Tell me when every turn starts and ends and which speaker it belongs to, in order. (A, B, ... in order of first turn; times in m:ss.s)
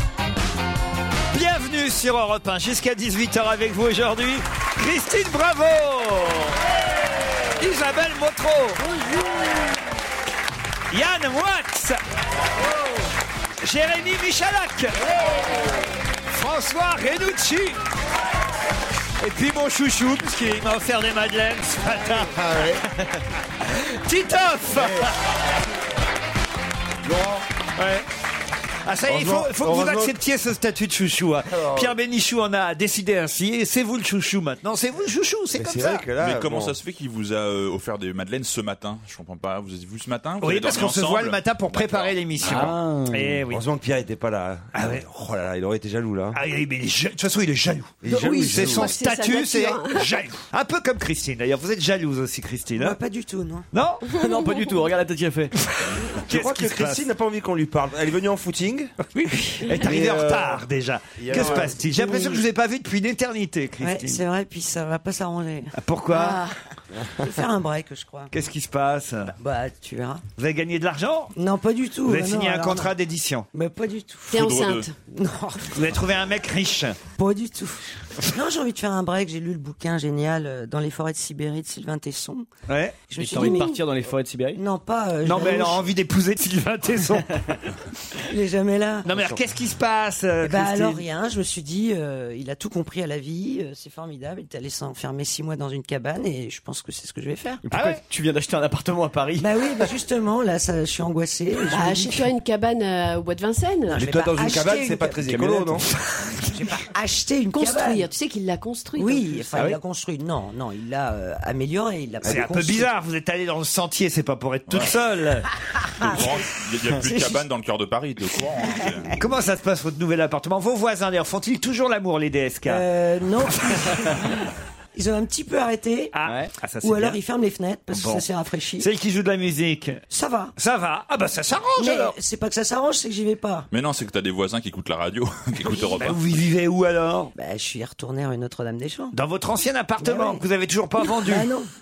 0:01.3-0:06.6 A
0:07.6-0:08.8 A
0:10.9-0:12.0 A
0:13.6-0:15.0 A
0:16.3-0:17.8 A
0:19.2-0:22.6 A
0:22.1-0:22.8 B
0:23.6-0:25.1 A
0:24.7-0:25.1 B
0:27.0-0:27.4 B
0:27.8-0:28.0 A
0:28.9-0:36.0 A
0:29.1-0:30.2 B
0:31.5-0:31.9 B
0:35.5-0:36.8 B
0:36.2-0:42.7 C
0:40.4-0:43.6 A
0:42.4-0:43.4 D
0:43.5-0:46.4 B
0:44.7-0:45.0 A
0:46.3-0:53.0 A
0:48.0-0:48.9 B
0:48.1-0:50.1 E
0:52.8-0:53.7 F
0:53.7-0:54.2 A
0:54.2-0:55.5 D
0:54.3-0:54.5 E
0:55.8-0:57.1 A
0:56.0-0:58.9 B
0:59.0-1:04.2 A
0:59.8-1:00.6 B
1:01.2-1:01.8 B
1:01.9-1:02.4 F
1:03.8-1:05.7 F
1:05.8-1:06.4 A
1:06.1-1:06.6 E
1:07.2-1:08.3 F
1:08.3-1:09.3 A
1:09.4-1:10.2 F
1:10.4-1:11.3 A
1:11.4-1:12.9 F
1:12.1-1:13.5 A
1:13.5-1:14.5 F
1:14.3-1:14.9 E
1:14.4-1:14.9 C
1:15.1-1:15.7 F
1:15.7-1:17.0 A
1:17.2-1:22.5 F
1:22.7-1:23.0 A
1:23.1-1:23.7 F
1:23.1-1:24.6 D
1:23.3-1:23.8 E
1:24.6-1:25.9 F
1:25.2-1:27.6 A
1:28.3-1:29.2 F
1:29.0-1:31.0 A
1:30.4-1:37.6 F
1:37.6-1:39.5 D
1:37.7-1:38.0 A
1:39.4-1:42.3 F
1:41.7-1:44.0 E
1:43.9-1:48.1 F
1:44.0-1:45.9 B
1:45.3-1:45.6 D
1:47.5-1:49.4 E
1:49.0-1:52.9 F
1:49.5-1:49.8 D
1:52.2-1:55.5 A
1:56.0-1:59.2 C
1:56.0-1:57.4 F
1:59.2-2:02.8 A
2:02.7-2:04.3 F
2:03.7-2:04.0 A
2:05.0-2:06.2 F
2:06.1-2:07.2 A
2:06.8-2:08.9 F
2:07.9-2:08.2 A
2:08.8-2:10.0 A
2:10.1-2:10.5 F
2:10.6-2:12.2 A
2:11.8-2:13.7 F
2:13.7-2:16.2 C
2:16.0-2:17.3 A
2:17.4-2:19.2 F
2:19.1-2:21.5 A
2:20.0-2:20.4 F
2:21.2-2:21.7 F